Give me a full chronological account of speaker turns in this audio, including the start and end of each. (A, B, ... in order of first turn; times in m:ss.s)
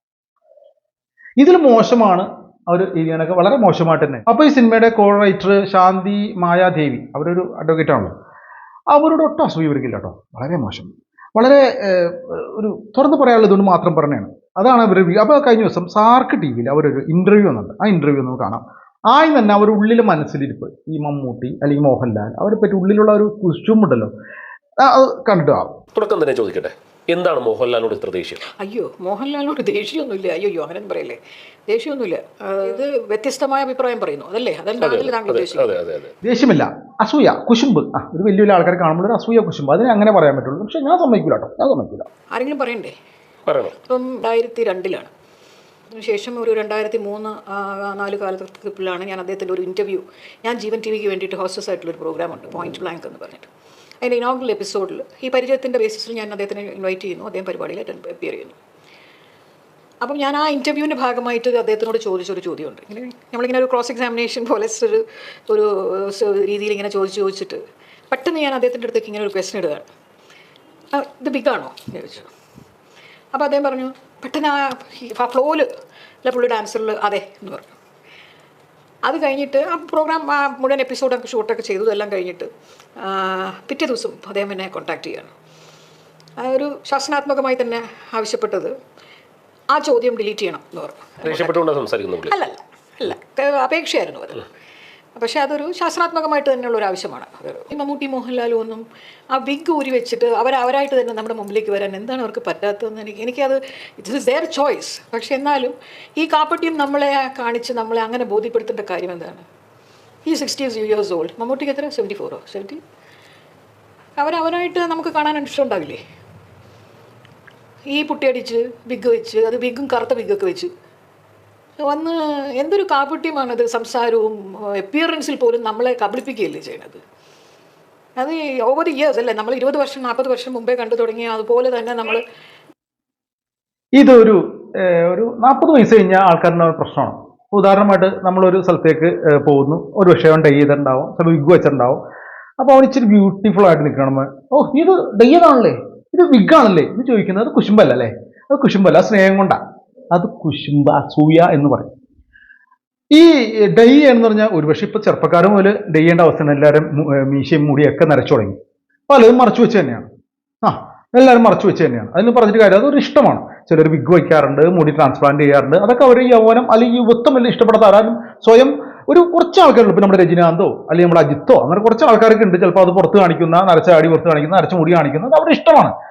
0:01.4-0:08.1 A
0:08.9-0:24.1 A
0:24.8-0:25.8 A
0:25.9-0:28.4 B
0:28.6-0:35.7 C
0:34.8-0:36.1 B
0:36.2-0:42.1 A
0:42.3-0:42.9 C
0:43.4-0:43.8 B
0:43.8-0:45.1 C
0:45.9-0:53.5 C
0:54.0-0:58.6 C
1:00.0-1:09.9 C
1:10.9-1:12.3 C
1:13.3-1:15.7 C
1:16.2-1:17.7 C
1:19.0-1:25.3 C
1:26.4-1:28.7 C
1:29.7-1:31.6 C
1:31.2-1:32.4 B
1:32.3-1:34.4 C
1:35.2-1:49.4 C
1:50.2-1:52.8 C
1:54.2-1:56.0 C
1:57.9-2:00.7 C
2:01.8-2:07.0 C
2:08.2-2:12.2 C
2:14.0-2:22.0 A
2:22.6-2:29.6 A
2:30.1-2:31.9 A
2:33.1-2:40.1 A
2:40.6-2:55.9 A